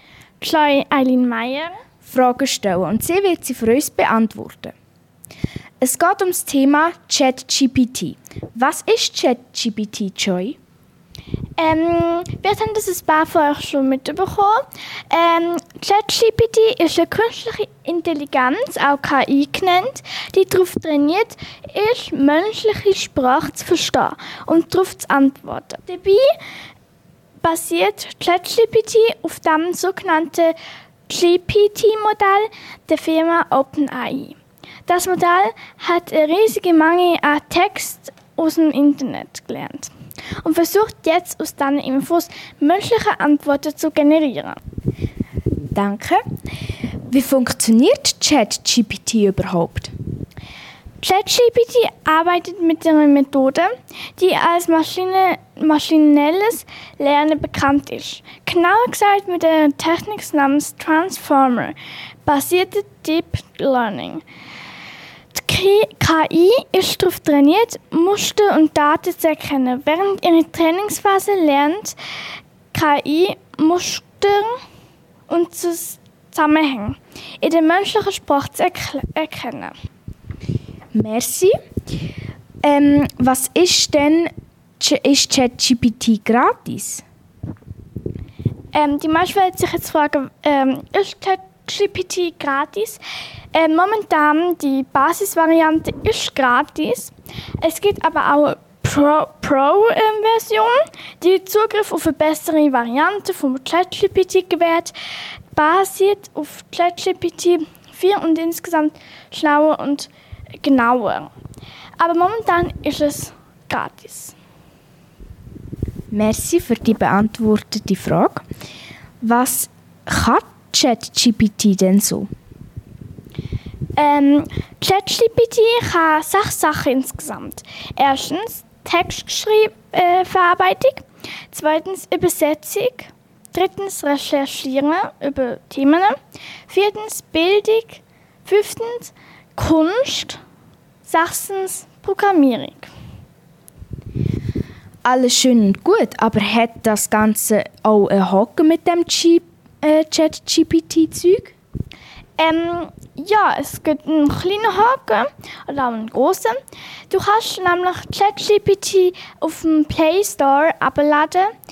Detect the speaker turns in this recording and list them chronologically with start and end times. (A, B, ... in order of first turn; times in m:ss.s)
0:00.4-0:01.8 A
0:02.0-0:04.7 B
0:05.8-0:10.6 B
0:11.6-0:26.3 A
0:27.4-0:30.5 A
0:31.1-0:44.6 A
0:45.7-0:46.2 B
0:47.1-0:49.9 B
0:51.0-1:04.2 A
1:05.3-1:12.0 A
1:12.7-1:14.6 A
1:15.3-1:19.7 A
1:20.9-1:21.5 B
1:22.6-1:27.0 B
1:28.7-1:33.0 A
1:33.5-1:44.9 A
1:45.5-1:51.3 A
1:52.0-1:54.3 A
1:56.1-1:58.4 B
1:59.2-2:02.3 B
2:04.0-2:16.2 A
2:16.7-2:20.4 A
2:21.0-2:22.9 A
2:25.0-2:31.5 B
2:32.4-2:36.6 A
2:37.1-2:41.5 A